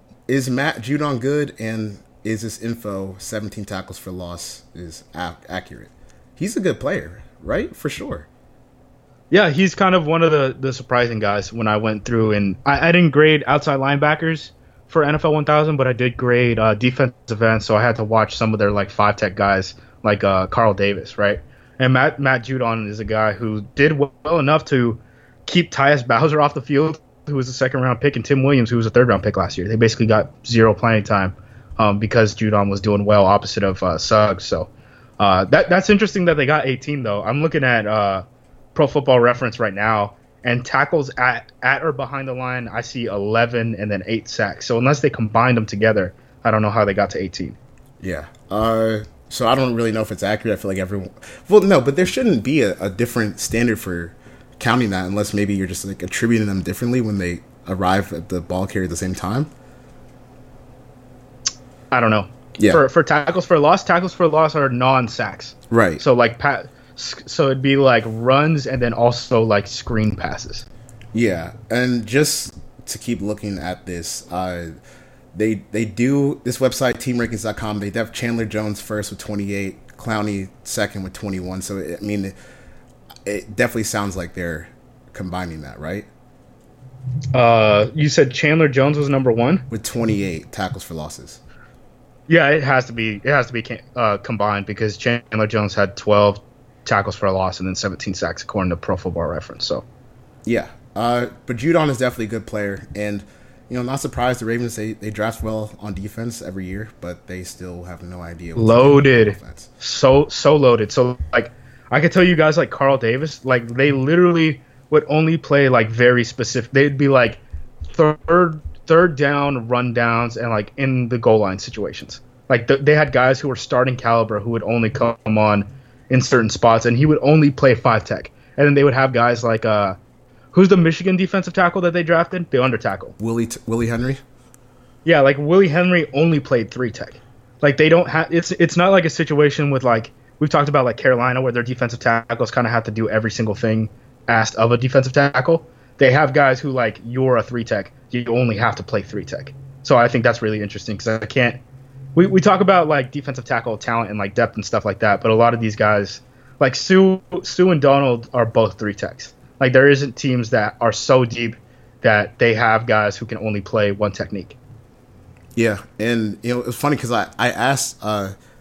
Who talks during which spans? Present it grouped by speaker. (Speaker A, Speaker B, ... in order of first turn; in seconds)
Speaker A: 0.3-8.3, 48.0-59.5, 62.6-62.8, 65.7-66.0, 71.1-74.7, 75.3-82.3, 83.2-86.1, 89.7-91.4, 100.5-109.7, 133.2-134.2, 165.6-168.3
Speaker B: 9.3-47.6, 61.9-70.7, 87.3-89.7, 92.3-99.8, 108.6-130.0, 130.5-133.2, 135.1-151.6, 152.2-164.6